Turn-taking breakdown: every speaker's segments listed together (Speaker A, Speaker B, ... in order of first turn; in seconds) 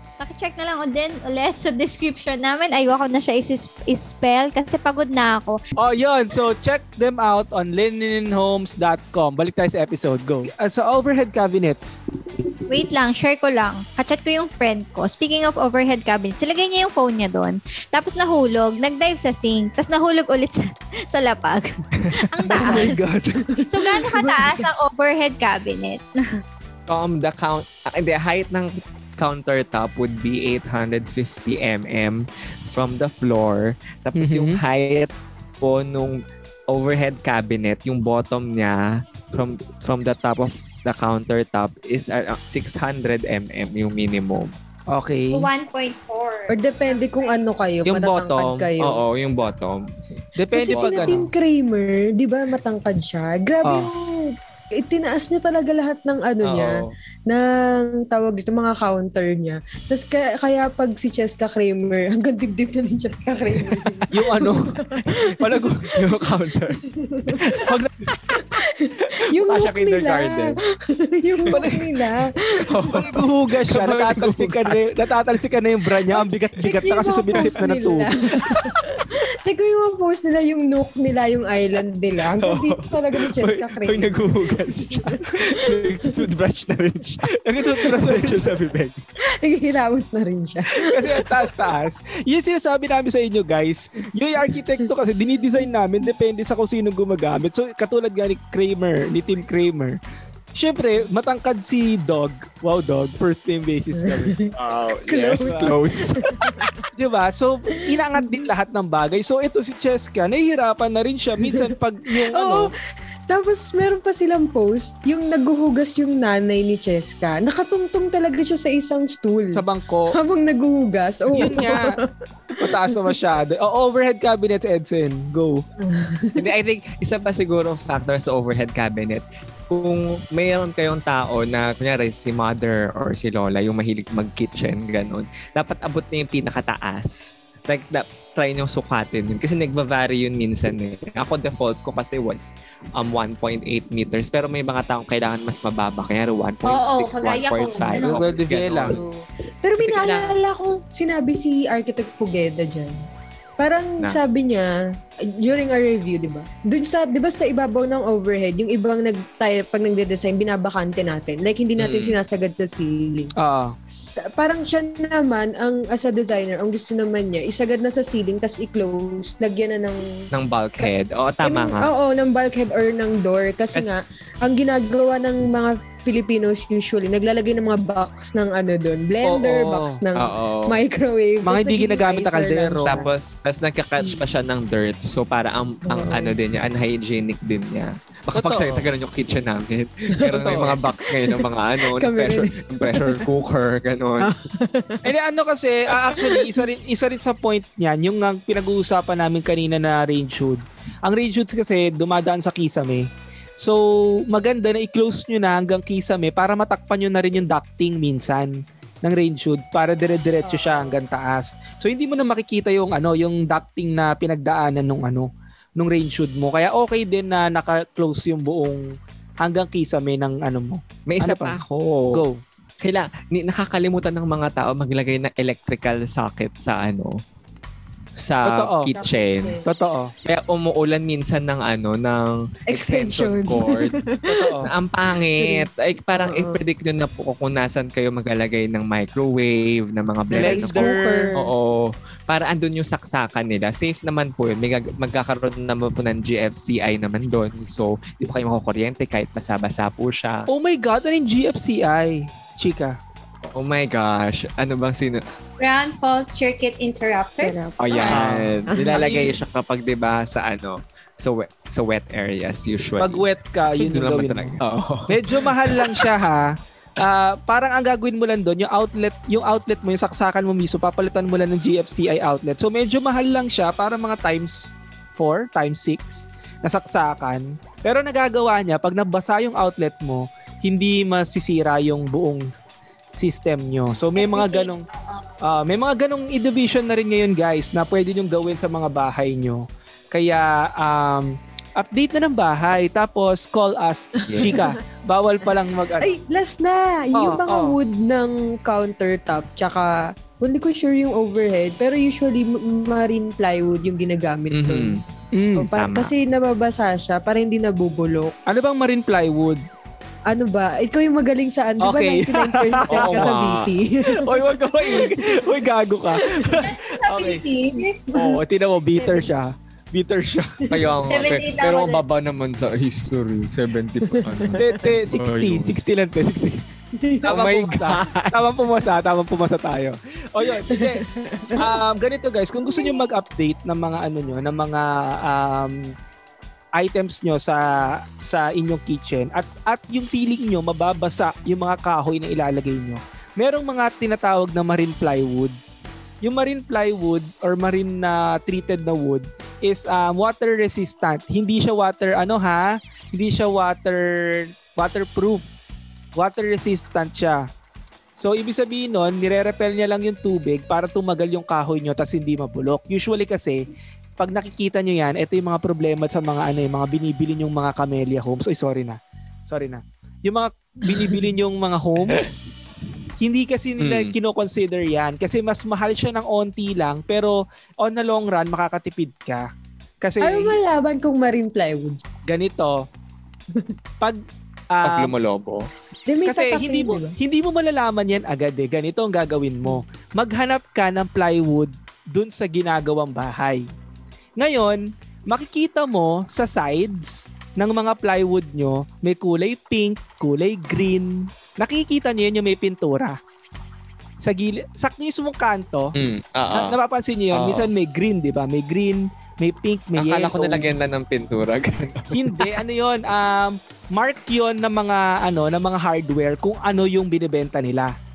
Speaker A: 0.2-5.6, 12.7-23.1, 23.7-26.4, 45.3-47.4, 146.7-148.2, 255.6-257.5, 284.1-285.3, 316.6-318.1, 318.9-319.3, 321.1-322.0
Speaker B: 5.8-12.0, 22.5-23.4, 34.2-34.6, 44.9-45.5, 50.4-51.3, 64.1-64.7, 65.3-65.8, 67.6-67.9, 71.5-71.9, 72.9-78.1, 87.5-88.6, 90.9-100.0, 100.5-104.5, 105.4-105.7, 107.0-112.7, 119.5-120.2, 121.3-121.9, 122.6-125.6, 147.9-149.0, 163.4-163.8, 179.2-180.0, 181.4-183.0, 188.3-188.9, 190.3-190.8, 195.1-203.1, 203.6-218.8, 219.4-221.6, 222.1-222.4, 228.4-228.9, 229.7-230.1, 234.3-234.7, 240.3-241.3, 250.5-253.0, 258.1-259.3, 263.0-264.6, 265.1-282.4, 283.2-284.9, 285.4-296.2, 297.1-297.8, 305.4-305.7, 308.5-309.6, 311.8-313.4, 314.1-317.4, 318.1-320.6, 324.6-326.6, 327.2-335.9, 336.8-345.6, 346.2-355.5, 356.2-357.4, 358.2-363.6, 364.2-372.4, 373.2-379.5, 380.0-380.6, 382.3-382.8, 384.7-385.1, 386.3-393.6, 394.4-403.2, 404.2-405.9, 406.5-410.7, 412.1-417.9
Speaker C: 22.6-24.5, 46.5-49.0, 50.5-65.3, 67.0-67.4, 68.4-73.0, 76.6-85.2, 89.4-91.5, 104.0-106.7, 108.2-108.4, 111.5-112.7, 113.3-122.0, 122.6-123.0, 125.9-126.4, 149.6-153.0, 153.6-154.7, 155.4-163.3, 163.9-170.0, 171.4-183.1, 185.9-186.4, 191.0-193.3, 194.2-195.1, 196.1-196.6, 210.5-210.9, 228.9-229.7, 232.7-234.5, 235.4-236.6, 240.3-241.5, 257.4-259.1, 296.0-305.0, 305.6-308.3, 310.3-314.3, 314.8-315.5, 316.2-316.6, 324.1-324.8, 327.0-327.3, 330.7-331.8, 332.6-332.9, 380.2-382.0, 386.1-387.1
Speaker D: 26.9-44.5, 47.9-49.9, 50.7-51.3, 56.4-56.9, 63.6-64.1, 65.9-68.5, 69.3-70.6, 72.7-74.8, 82.4-89.0, 104.6-106.7, 126.4-149.0, 149.8-150.4, 161.8-162.2, 170.3-171.9, 173.7-174.0, 180.2-180.8, 182.9-194.3, 221.1-222.2, 222.8-227.2, 228.2-229.6, 230.2-233.9, 234.6-250.5, 253.5-255.3, 257.8-266.1, 294.3-294.6, 304.5-305.0, 305.7-306.1, 312.9-313.7, 320.7-325.8, 327.3-328.5, 373.8-374.1, 384.8-385.7, 405.9-406.8, 407.3-407.7, 409.9-412.5